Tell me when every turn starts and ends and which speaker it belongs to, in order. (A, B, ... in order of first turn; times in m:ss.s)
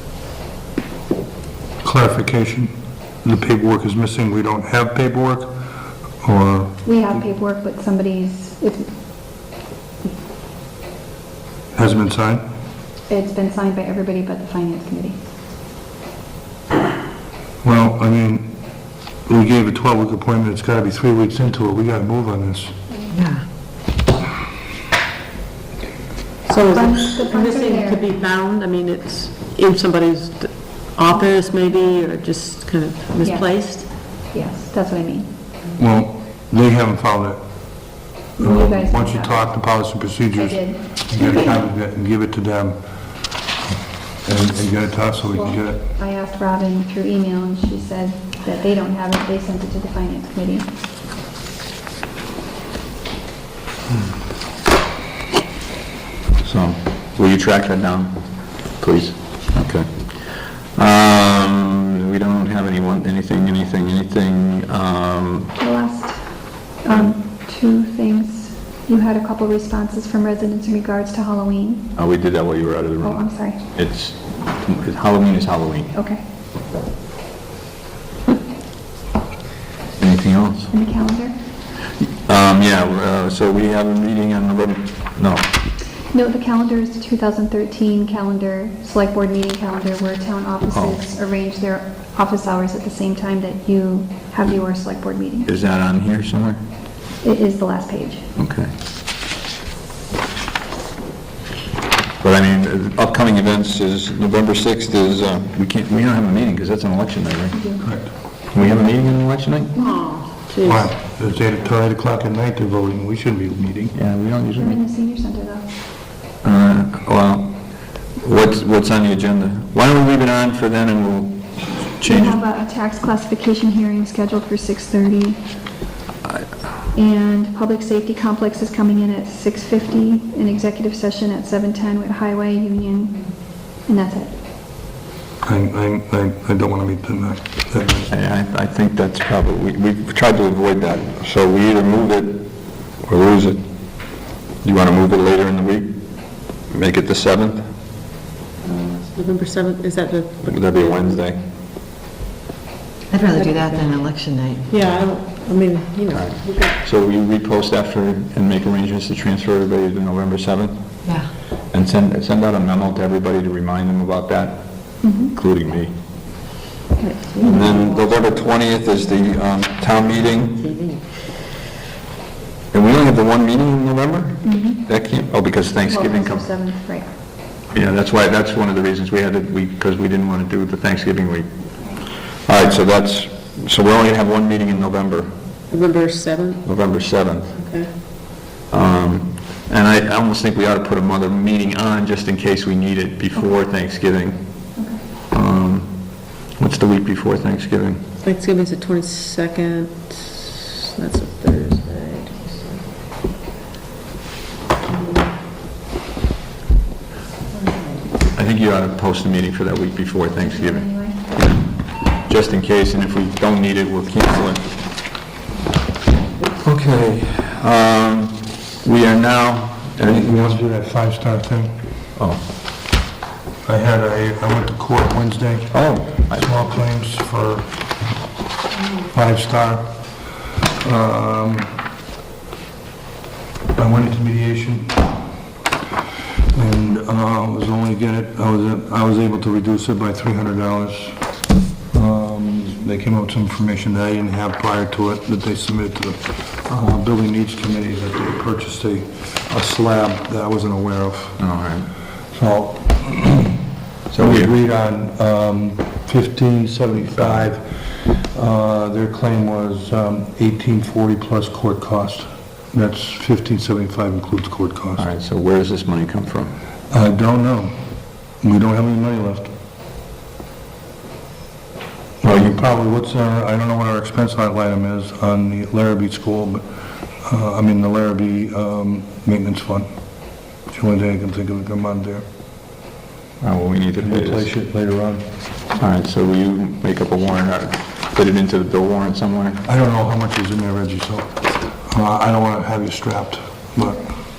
0:01.8-0:02.7 A
0:03.2-0:05.5 A
0:06.2-0:06.8 A
0:06.8-0:08.9 B
0:11.7-0:12.4 A
0:13.1-0:15.2 B
0:17.6-0:18.5 A
0:19.3-0:22.7 A
0:23.1-0:23.4 C
0:26.5-0:33.9 D
0:26.6-0:28.1 B
0:33.2-0:35.3 B
0:35.8-0:37.4 A
0:38.4-0:39.4 B
0:38.4-0:42.8 A
0:40.3-0:40.8 B
0:44.2-0:45.9 A
0:45.3-0:50.7 B
0:56.4-1:05.5 E
1:05.6-1:06.3 B
1:06.8-1:11.9 B
1:12.0-1:15.9 E
1:13.0-1:13.6 B
1:15.9-1:16.2 B
1:20.0-1:20.7 E
1:20.7-1:21.4 B
1:22.2-1:25.5 E
1:26.1-1:35.5 B
1:30.7-1:31.0 E
1:35.5-1:36.6 E
1:37.2-1:38.2 B
1:38.4-1:38.7 E
1:42.2-1:47.6 E
1:47.5-1:47.9 B
1:47.8-1:48.1 A
1:48.5-1:49.7 E
1:49.8-1:50.9 D
1:50.6-1:53.9 A
1:53.9-1:54.8 E
1:54.6-1:55.7 B
1:56.4-1:57.6 E
1:58.2-2:02.4 E
2:02.0-2:05.4 B
2:06.9-2:13.2 B
2:13.8-2:14.3 B
2:15.4-2:18.1 A
2:18.1-2:23.6 E
2:24.6-2:26.0 E
2:26.7-2:27.7 E
2:28.6-2:31.3 D
2:30.4-2:31.4 E
2:33.1-2:34.7 C
2:33.1-2:34.1 D
2:34.7-2:36.8 D
2:36.1-2:41.0 E
2:41.0-2:41.3 C
2:41.7-2:45.9 E
2:45.0-2:45.3 B
2:47.0-2:47.8 D
2:47.4-2:50.7 E
2:50.6-2:51.0 C
2:52.7-2:56.5 E
2:54.4-2:54.8 B
2:55.9-2:57.1 B
2:57.7-3:01.5 E
3:02.4-3:05.3 E
3:05.7-3:06.6 D
3:06.6-3:07.6 E
3:07.5-3:07.9 D
3:08.7-3:14.7 E
3:14.8-3:15.0 B
3:15.3-3:18.0 E
3:18.2-3:22.8 D
3:24.9-3:25.3 D
3:28.3-3:34.7 E
3:30.4-3:31.2 B
3:36.6-3:40.3 E
3:40.0-3:41.8 A
3:43.6-3:47.7 A
3:45.7-3:46.5 E
3:49.1-3:49.9 A
3:50.8-3:51.7 A
3:53.8-3:55.1 A
3:56.5-4:01.2 A
4:01.9-4:11.4 A
4:11.4-4:11.9 E
4:12.3-4:25.1 A
4:14.1-4:14.5 E
4:25.0-4:26.5 E
4:26.9-4:27.8 A
4:28.4-4:29.5 A
4:32.2-4:36.6 A
4:37.2-4:39.9 A
4:40.7-4:42.2 A
4:43.4-4:44.5 E
4:44.0-4:45.2 A
4:45.8-4:49.6 E
4:49.6-4:54.1 A